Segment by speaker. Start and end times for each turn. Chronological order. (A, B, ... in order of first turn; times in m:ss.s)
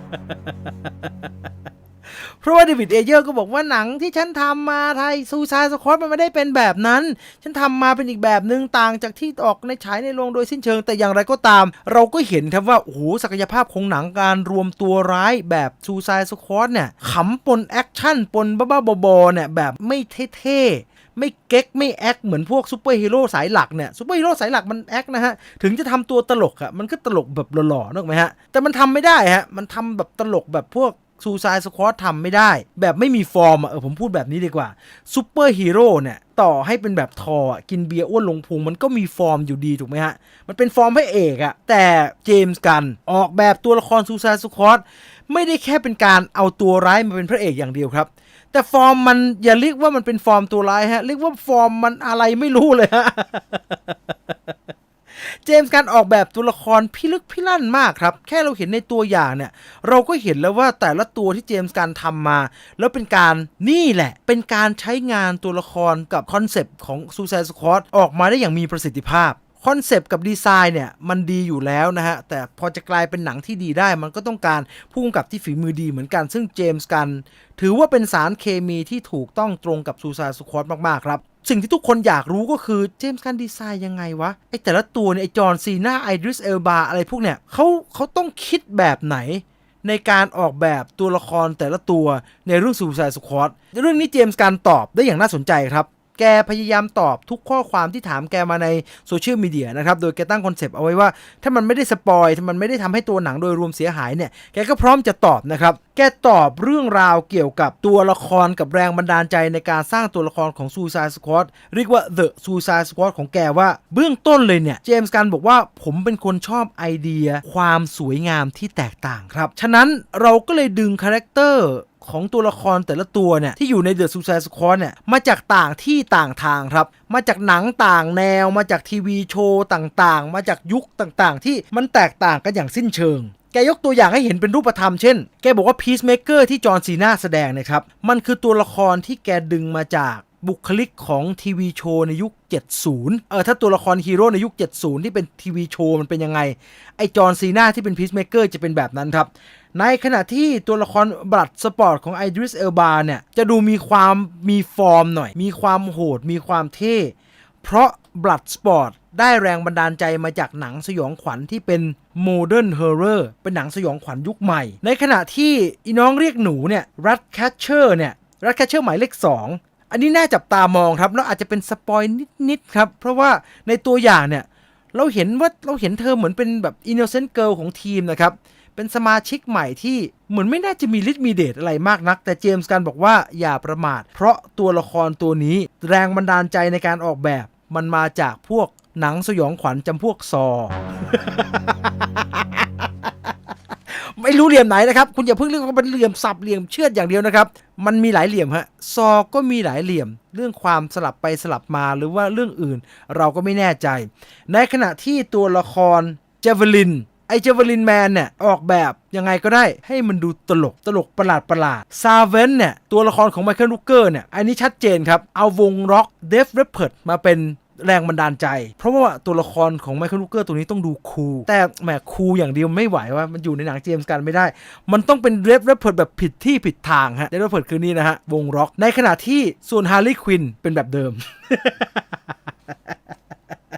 0:00.3-0:01.1 A
0:02.1-0:54.3 A
0:55.2-3:13.1 A
3:13.9-3:52.0 A